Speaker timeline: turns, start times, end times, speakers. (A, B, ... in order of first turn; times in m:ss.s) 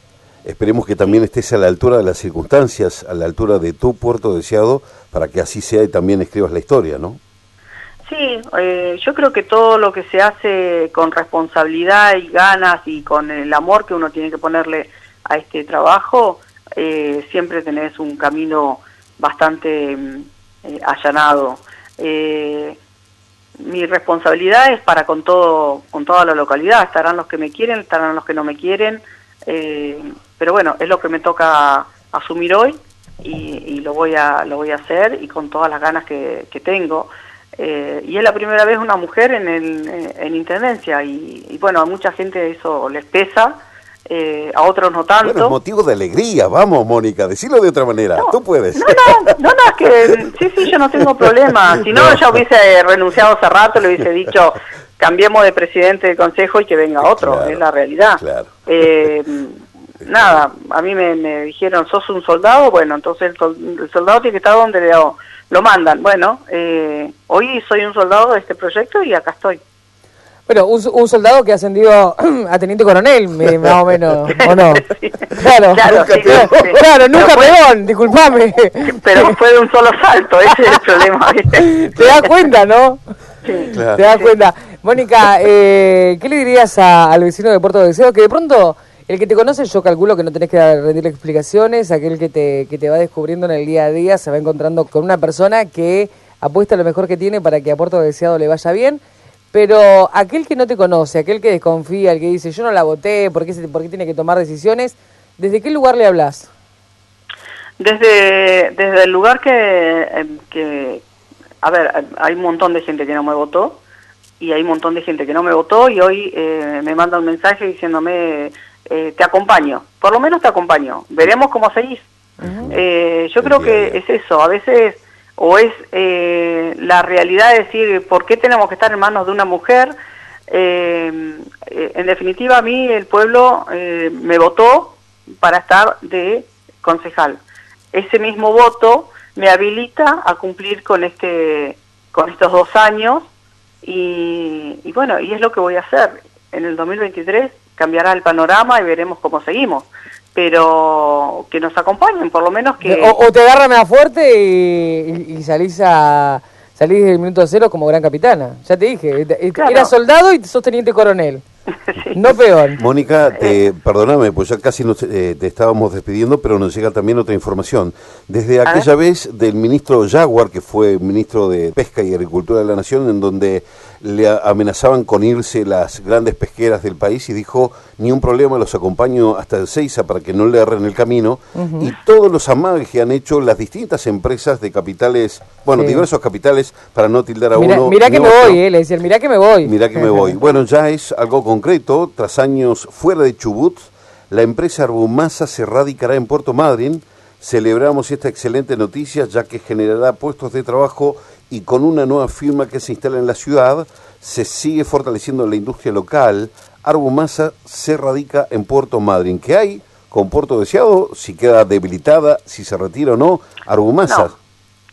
0:00.4-0:07.2 A
0:08.1-0:22.8 B
0:23.6-0:45.6 B
0:45.2-0:49.3 A
0:48.2-1:09.6 B
0:51.8-0:52.4 A
0:57.0-0:57.6 A
0:58.2-0:58.6 A
1:00.0-1:00.4 A
1:10.5-1:19.4 C
1:14.4-1:17.6 B
1:15.9-1:16.8 A
1:18.9-1:22.3 B
1:21.5-1:23.0 C
1:23.4-1:24.3 B
1:23.7-1:24.0 A
1:23.9-1:39.0 C
1:39.5-1:46.5 C
1:47.8-1:51.0 B
1:51.6-1:53.8 B
1:54.4-2:02.1 B
2:02.4-2:02.7 C
2:02.4-2:02.8 A
2:02.7-2:09.9 B
2:03.4-2:04.0 A
2:10.5-2:17.4 B
2:17.9-2:23.3 B
2:23.8-2:33.2 B
2:32.8-2:41.4 C
2:39.6-2:39.9 B
2:41.9-2:42.2 B
2:42.1-2:42.8 C
2:42.8-3:08.6 A
3:01.6-3:01.9 C
3:05.8-3:06.1 C
3:07.6-3:10.4 C
3:09.6-3:34.4 A
3:34.1-3:34.3 B